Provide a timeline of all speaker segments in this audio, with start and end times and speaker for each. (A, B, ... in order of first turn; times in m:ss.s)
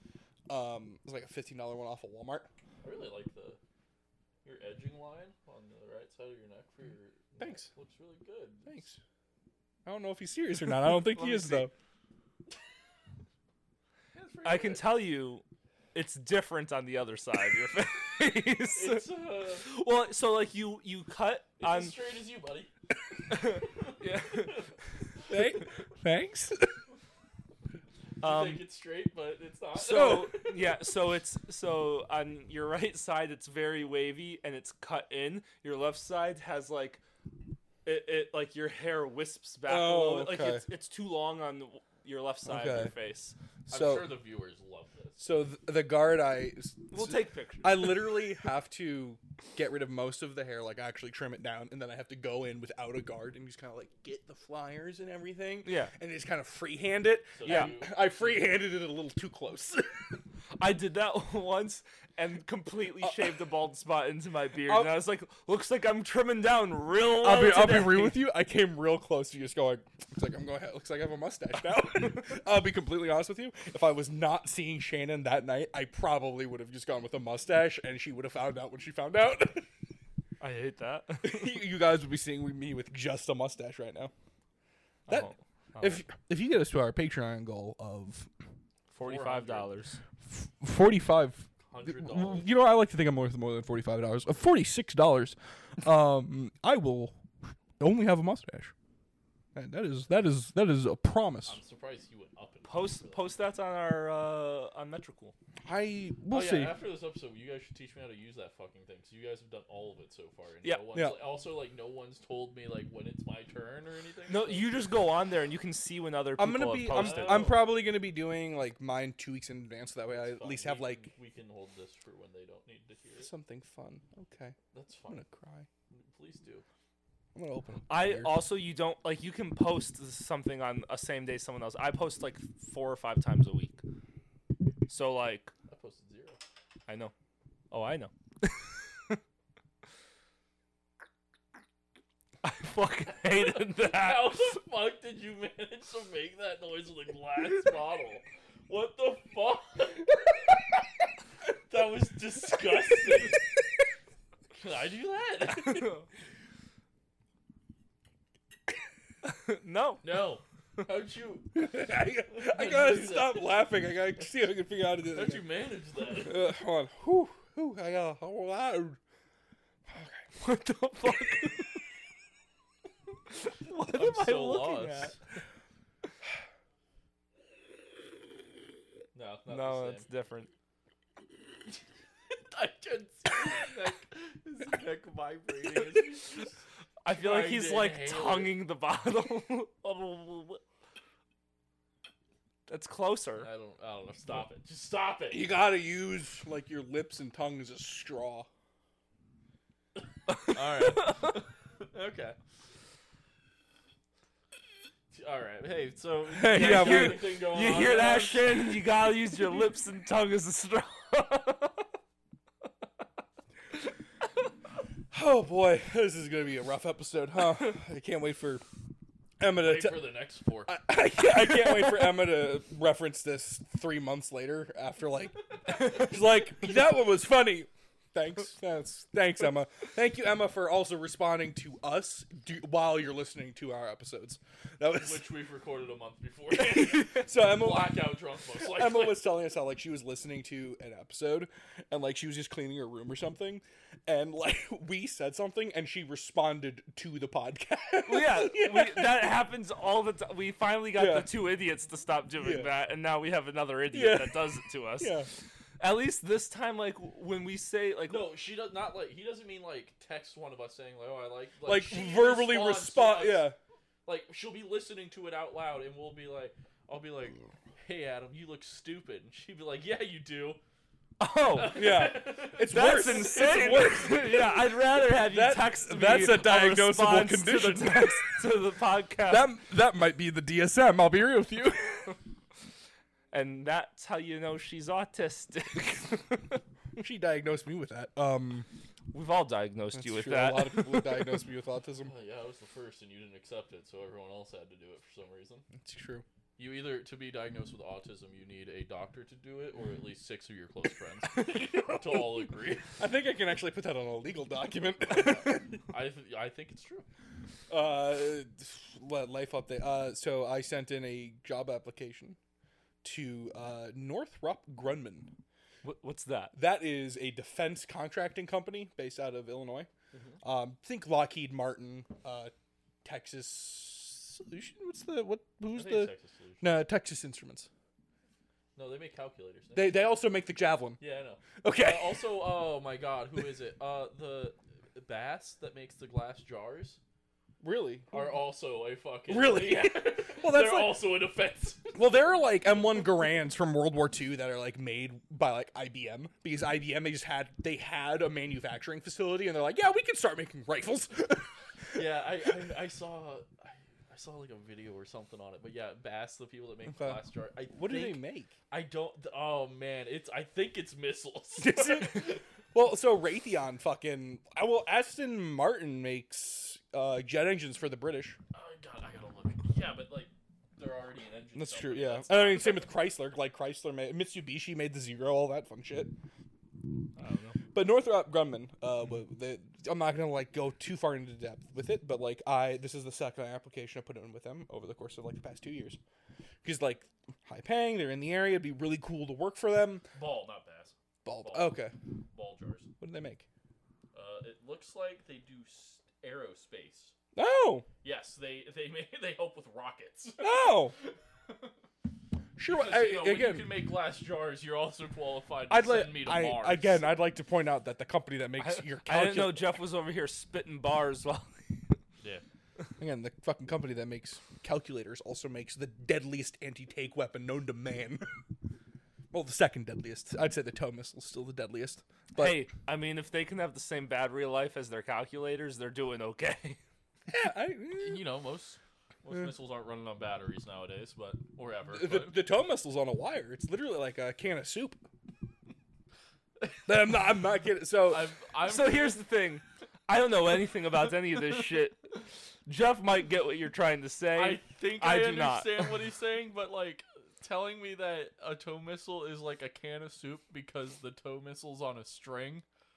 0:00.5-0:02.5 A
0:02.8-0:03.6 B
0:04.4-0:08.8 B
0:07.4-0:07.7 A
0:08.6-0:09.0 A
0:09.8-0:11.7 A
0:10.8-0:11.7 C
0:14.1-0:15.0 B
0:14.4-0:22.0 C
0:18.7-0:19.7 B
0:21.6-0:22.7 B
0:23.3-0:24.7 C
0:23.3-0:24.7 B
0:25.3-0:26.8 A
0:28.2-0:30.5 B
0:28.2-0:28.6 C
0:29.8-0:37.0 C
0:29.8-0:30.3 A
0:37.8-0:43.4 C
0:39.7-0:40.6 A
0:42.4-0:42.9 A
0:43.7-0:44.1 A
0:43.7-0:45.2 B
0:45.2-1:00.1 A
0:46.9-0:48.0 C
0:55.6-0:55.9 C
0:57.3-0:58.4 B
0:57.4-0:57.7 C
1:00.6-1:08.2 C
1:04.6-1:04.9 A
1:07.2-1:19.7 A
1:20.4-1:21.6 C
1:21.2-1:24.1 A
1:25.1-1:26.0 C
1:25.1-1:28.3 A
1:28.9-1:30.0 C
1:29.0-1:29.7 B
1:30.3-1:37.2 A
1:31.6-1:32.5 B
1:37.8-1:38.7 A
1:39.5-1:41.6 A
1:41.4-1:43.4 B
1:42.6-1:45.3 C
1:45.6-1:46.7 A
1:46.3-1:54.7 B
1:50.6-1:50.9 C
1:54.3-1:57.6 C
1:56.4-2:01.1 A
1:56.9-1:57.6 B
2:00.1-2:03.3 B
2:03.2-2:04.6 A
2:04.7-2:05.2 B
2:05.1-2:05.7 A
2:05.9-2:06.6 B
2:07.3-2:08.4 A
2:07.9-2:13.8 C
2:14.9-2:15.5 C
2:15.7-2:16.4 B
2:16.9-2:17.1 C
2:17.7-2:19.2 C
2:22.4-2:24.5 C
2:23.1-2:30.6 B
2:31.7-2:33.4 B
2:34.5-2:36.0 B
2:35.6-2:36.0 C
2:39.2-2:40.2 C
2:40.0-2:41.7 B
2:41.5-2:45.4 A
2:42.2-2:43.7 B
2:45.1-2:46.5 B
2:46.2-2:49.0 A
2:49.9-2:50.2 A
2:50.4-2:51.8 C
2:53.3-2:55.2 C
2:53.9-2:55.2 B
2:59.1-3:00.0 B
2:59.5-3:00.5 C
3:02.3-3:08.5 B
3:07.0-3:10.6 C
3:12.7-3:13.5 C
3:13.4-3:15.5 B
3:15.3-3:18.5 A
3:20.3-3:21.3 C
3:20.4-3:22.4 B
3:25.1-3:28.5 B
3:26.3-3:27.4 A
3:26.5-3:31.8 C
3:35.1-3:38.6 A
3:39.4-3:40.1 A
3:39.5-3:40.9 B
3:40.7-3:55.2 A
3:55.0-3:59.3 B
3:56.5-3:58.0 A
3:58.5-4:09.3 A
4:08.0-4:15.3 C
4:10.9-4:11.3 A
4:12.4-4:12.7 A
4:13.9-4:15.3 A
4:15.8-4:18.3 C
4:18.1-4:23.5 B
4:21.6-4:23.6 A
4:24.0-4:30.6 B
4:31.2-4:39.5 C
4:31.5-4:34.4 B
4:31.7-4:34.6 A
4:35.2-4:38.4 A
4:39.3-4:42.2 A
4:43.3-4:46.6 C
4:47.0-4:48.6 A
4:49.1-4:51.4 C
4:49.9-4:52.1 A
4:52.0-4:55.6 B
4:55.8-4:56.2 A
4:56.6-5:02.9 B
5:01.5-5:02.0 A
5:03.0-5:05.7 A
5:05.1-5:07.1 B
5:07.7-5:12.4 A
5:13.0-5:15.3 A
5:15.8-5:16.5 C
5:16.5-5:19.9 A
5:20.1-5:20.4 B
5:20.4-5:22.5 A
5:23.0-5:27.7 A
5:25.7-5:26.7 B
5:28.8-5:30.0 B
5:29.7-5:31.0 A
5:31.0-5:37.0 B
5:31.6-5:32.3 A
5:37.6-5:38.3 A
5:38.1-5:42.0 B
5:39.3-5:41.0 A
5:41.9-5:51.5 A
5:51.9-6:02.4 B
5:56.9-5:57.2 A
5:57.7-5:58.5 A
6:01.6-6:08.4 A
6:08.5-6:12.9 B
6:11.5-6:16.1 A
6:17.2-6:17.6 C
6:17.7-6:26.0 A
6:26.6-6:30.1 A
6:30.1-6:31.8 B
6:31.2-6:31.9 A
6:32.3-6:32.9 B
6:33.0-6:33.4 A
6:34.1-6:37.1 B
6:37.3-6:37.8 A
6:38.0-6:41.7 B
6:40.4-6:40.9 A
6:42.6-6:43.7 A
6:42.6-6:47.1 B
6:45.7-6:49.7 A
6:48.6-6:52.0 C
6:53.0-6:58.3 A
6:59.3-7:02.6 A
7:02.3-7:06.8 C
7:07.3-7:08.3 A
7:07.9-7:12.4 B
7:11.9-7:15.0 A
7:16.8-7:18.3 A
7:18.1-7:19.2 B
7:18.6-7:26.0 C
7:24.3-7:32.6 B